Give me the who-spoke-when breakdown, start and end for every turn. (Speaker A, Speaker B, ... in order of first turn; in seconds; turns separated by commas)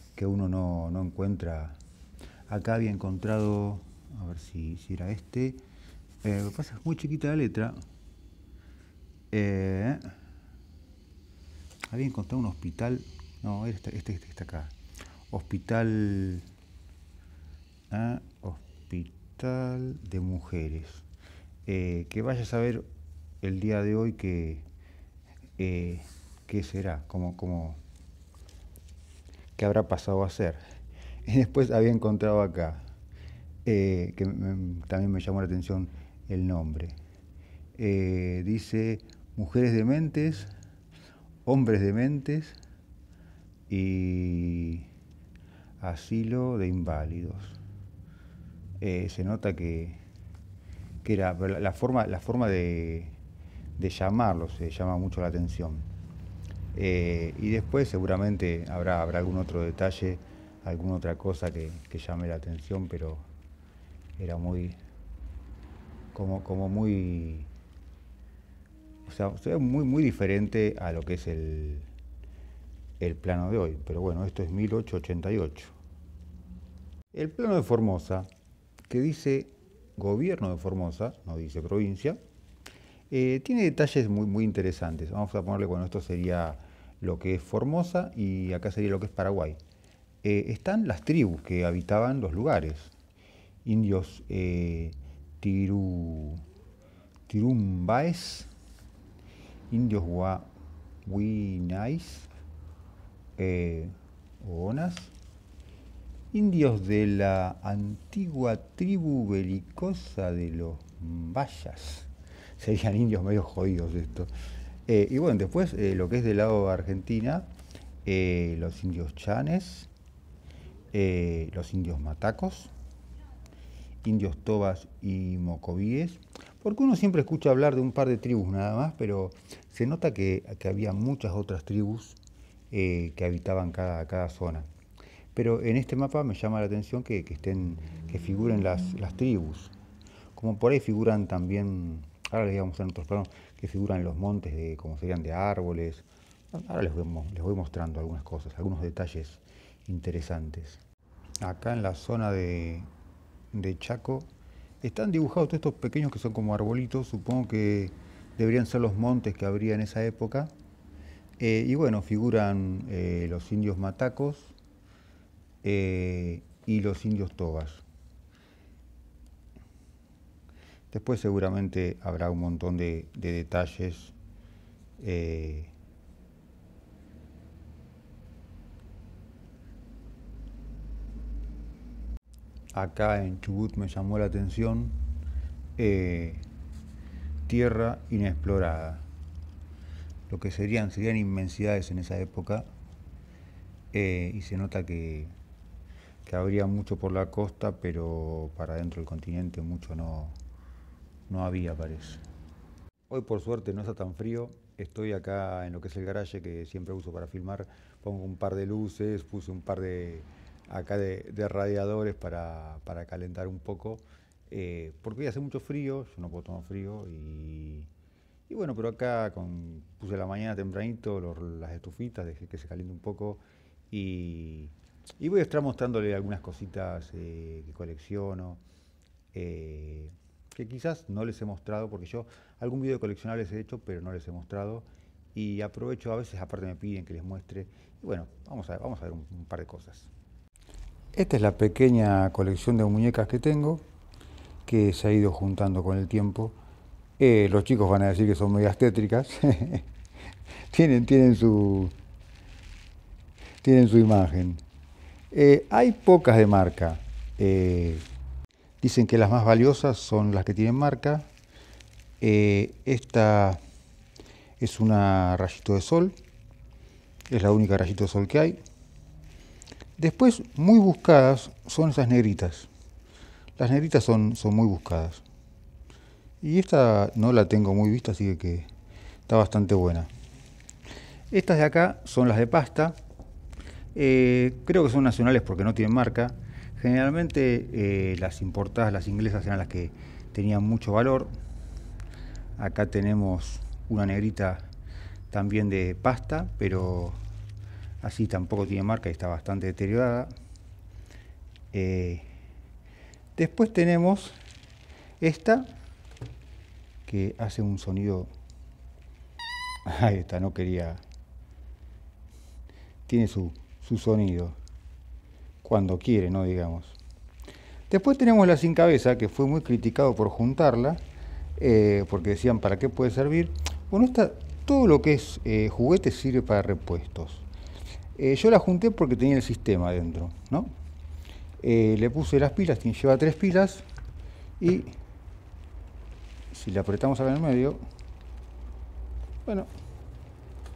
Speaker A: 0.1-1.8, Speaker A: 2.5-5.6, Speaker A: 6.2-7.8, Speaker A: 9.3-10.0, Speaker A: 11.9-14.7, Speaker A: 15.3-16.4, Speaker A: 17.9-21.1, Speaker A: 21.6-22.9, Speaker A: 23.4-24.6, Speaker A: 25.6-27.8, Speaker A: 29.6-30.6, Speaker A: 31.2-32.8, Speaker A: 33.6-37.0, Speaker A: 37.8-40.5, Speaker A: 41.5-42.6, Speaker A: 43.7-44.9, Speaker A: 45.8-47.6, Speaker A: 48.8-50.0, Speaker A: 51.0-53.2, Speaker A: 53.8-55.9, Speaker A: 56.7-63.3, Speaker A: 64.2-64.8, Speaker A: 66.1-67.5, Speaker A: 69.0-71.9, Speaker A: 73.0-75.7, Speaker A: 77.1-78.3, Speaker A: 78.9-82.2, Speaker A: 83.1-89.6, Speaker A: 90.2-92.9, Speaker A: 93.6-96.4, Speaker A: 97.3-98.5, Speaker A: 99.7-100.5, Speaker A: 101.0-102.3, Speaker A: 103.4-105.1, Speaker A: 106.3-114.3, Speaker A: 114.9-117.5, Speaker A: 118.0-119.9, Speaker A: 120.9-122.7, Speaker A: 124.0-132.2, Speaker A: 132.7-134.7, Speaker A: 135.3-139.7, Speaker A: 140.3-150.8, Speaker A: 151.4-152.9, Speaker A: 153.5-154.3, Speaker A: 154.8-160.5, Speaker A: 161.4-164.5, Speaker A: 165.6-167.8, Speaker A: 170.9-174.1, Speaker A: 175.0-175.7, Speaker A: 182.7-185.0, Speaker A: 185.8-186.4, Speaker A: 187.5-189.1, Speaker A: 190.3-192.7, Speaker A: 193.9-195.3, Speaker A: 196.2-200.4, Speaker A: 201.3-202.2, Speaker A: 203.1-217.9, Speaker A: 218.5-228.6, Speaker A: 229.3-240.1, Speaker A: 241.1-243.8, Speaker A: 244.7-246.6, Speaker A: 247.2-249.9, Speaker A: 250.7-251.9, Speaker A: 253.6-254.6, Speaker A: 255.3-258.0, Speaker A: 258.8-261.3, Speaker A: 262.2-263.6, Speaker A: 264.6-266.1, Speaker A: 267.3-268.6, Speaker A: 270.0-272.7, Speaker A: 273.6-275.2, Speaker A: 276.4-278.7, Speaker A: 279.3-280.1, Speaker A: 281.3-282.9, Speaker A: 283.9-291.3, Speaker A: 292.6-294.7, Speaker A: 295.3-297.2, Speaker A: 298.0-300.3, Speaker A: 301.7-302.3, Speaker A: 303.4-304.4, Speaker A: 305.2-305.7, Speaker A: 307.1-308.3, Speaker A: 309.9-311.0, Speaker A: 313.1-314.6, Speaker A: 315.6-317.0, Speaker A: 317.9-321.0, Speaker A: 321.6-327.4, Speaker A: 328.2-330.7, Speaker A: 331.6-333.8, Speaker A: 334.6-334.9, Speaker A: 336.5-337.8